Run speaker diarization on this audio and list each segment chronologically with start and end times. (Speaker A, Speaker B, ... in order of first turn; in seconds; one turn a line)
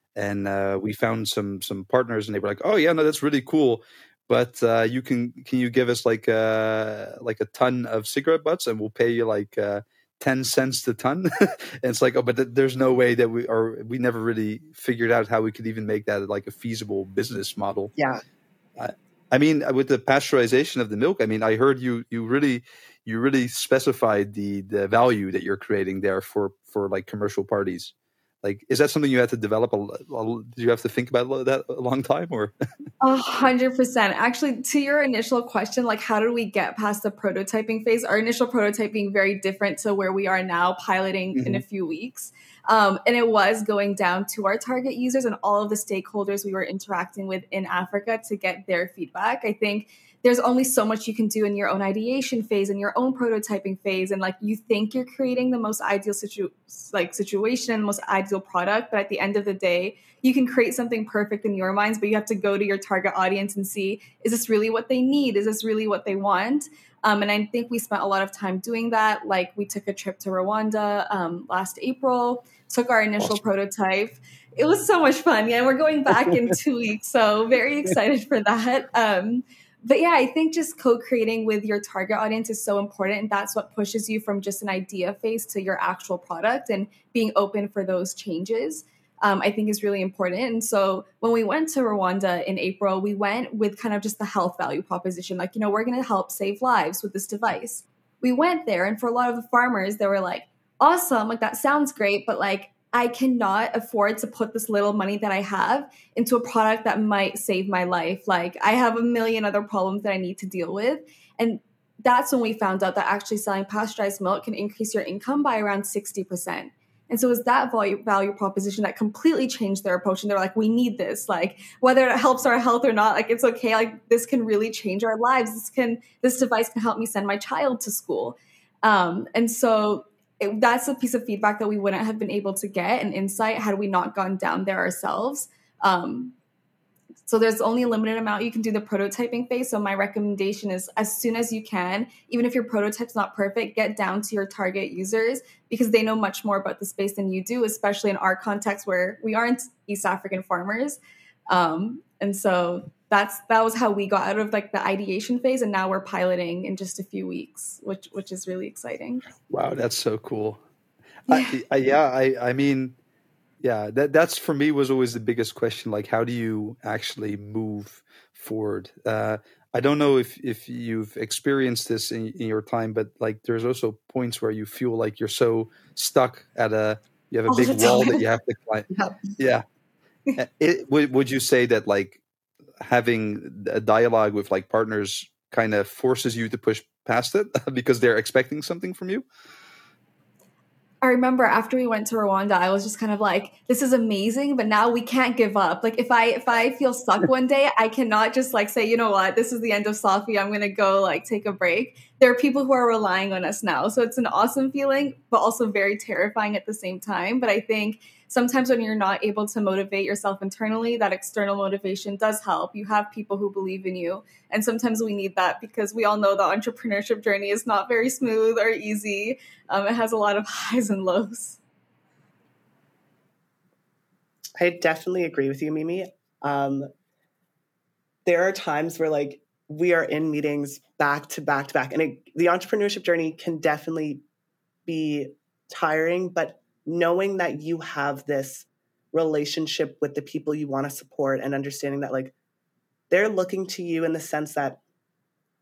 Speaker A: 0.2-17.9
Speaker A: 18.8-32.5
Speaker B: 33.0-136.3
Speaker A: 41.4-41.6
Speaker A: 76.3-76.5
Speaker B: 137.3-159.3
Speaker A: 159.5-160.6
Speaker A: 161.3-163.0
Speaker B: 161.3-161.6
Speaker A: 163.6-179.7
Speaker B: 177.5-178.2
Speaker A: 180.4-182.2
Speaker A: 182.8-189.2
Speaker B: 191.0-221.6
Speaker C: 224.6-226.9
Speaker C: 228.2-234.2
Speaker C: 234.9-242.3
Speaker C: 243.1-244.8